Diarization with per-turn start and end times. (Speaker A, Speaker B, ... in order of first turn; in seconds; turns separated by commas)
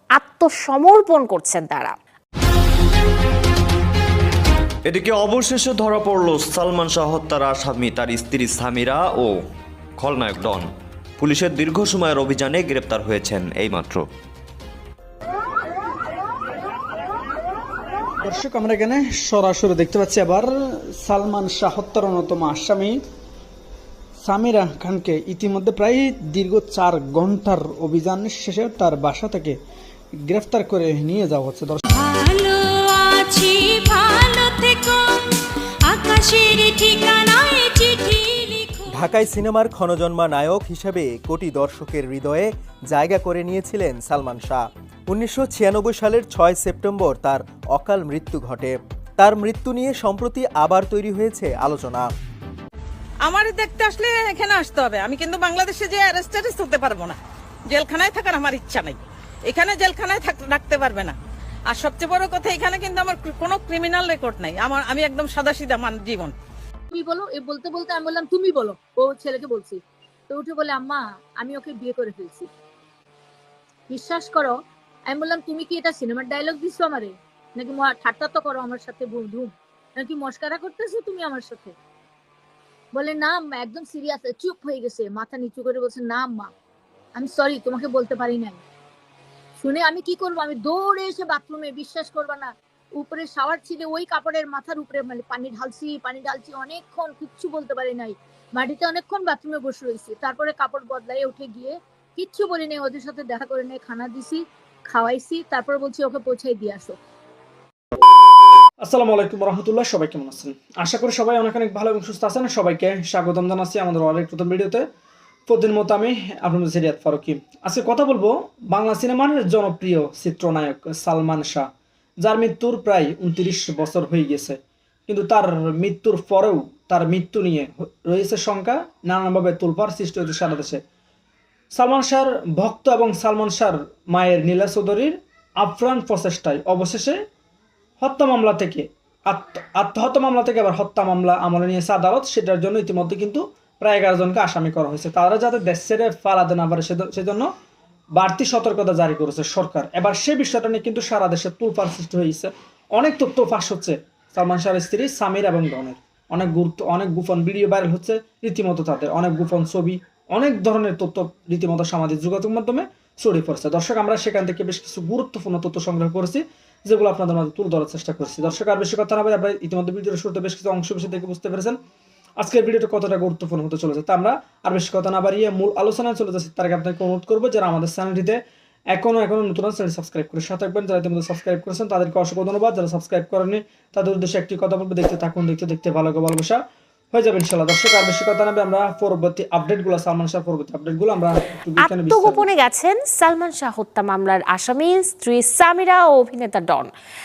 Speaker A: 0.2-1.9, Speaker B: 4.8-9.5, Speaker B: 10.0-14.1, Speaker C: 18.2-23.0, Speaker C: 24.2-29.6, Speaker C: 30.2-31.8, Speaker D: 31.9-39.1, Speaker E: 38.9-52.1, Speaker F: 53.2-57.2, Speaker F: 57.7-61.2, Speaker F: 61.7-66.3, Speaker G: 66.9-72.5, Speaker G: 73.9-74.5, Speaker G: 75.1-81.8, Speaker G: 82.9-86.5, Speaker G: 87.2-88.6, Speaker G: 89.6-107.0, Speaker C: 108.8-114.8, Speaker C: 115.5-121.7, Speaker C: 122.2-130.8, Speaker C: 131.7-137.2, Speaker C: 138.0-147.5, Speaker C: 148.2-171.8, Speaker C: 172.4-178.4, Speaker C: 178.9-186.6, Speaker C: 187.1-192.5, Speaker A: 191.8-196.9